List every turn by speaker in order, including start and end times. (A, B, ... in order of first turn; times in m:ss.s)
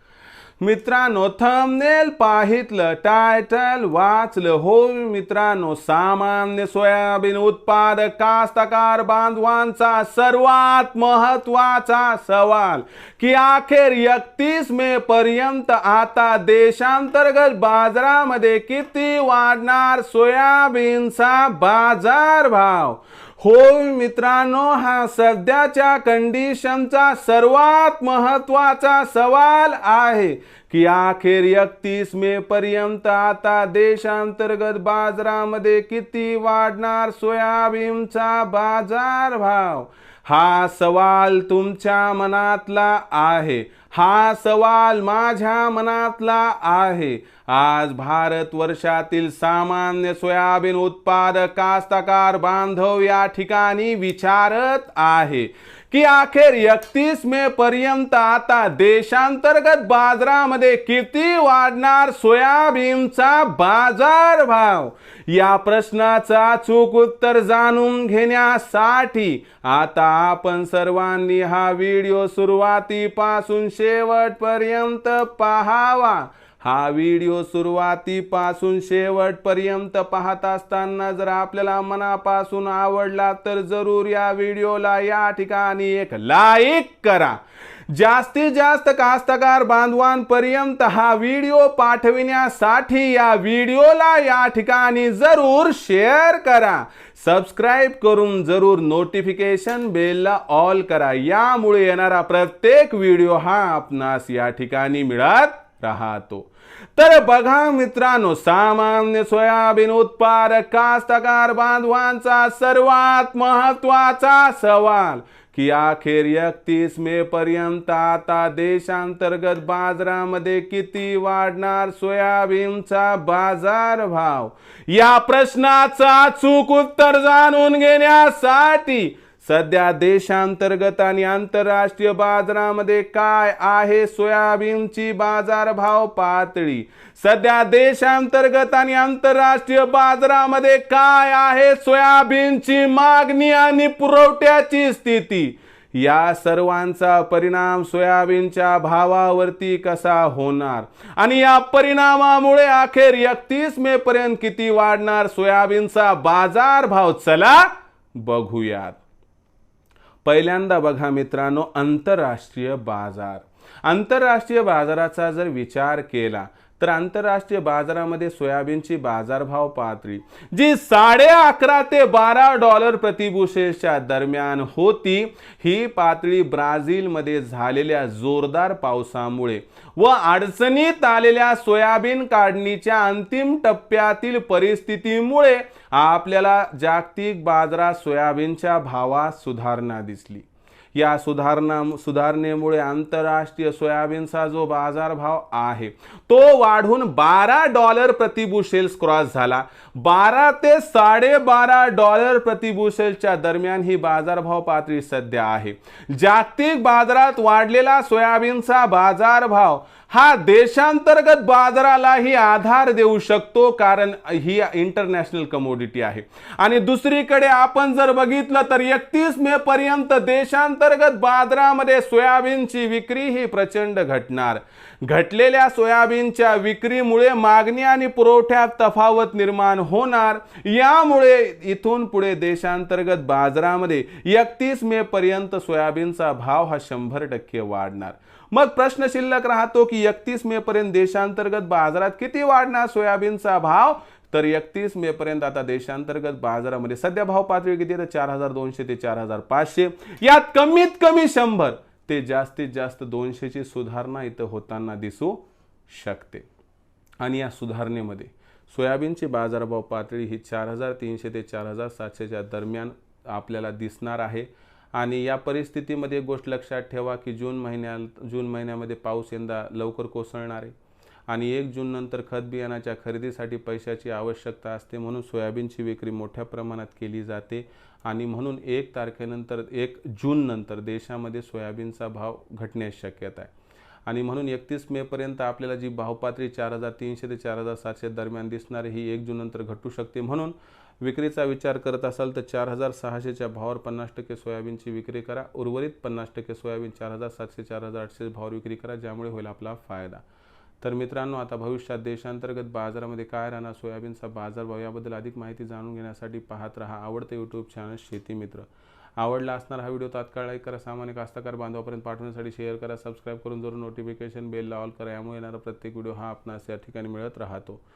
0:00.6-1:27.4 A
1:27.9-2:39.0 A
2:40.2-4:16.4 A
4:17.2-4:30.7 A
4:31.3-4:43.5 A
4:44.1-5:00.2 A
5:00.8-5:17.8 A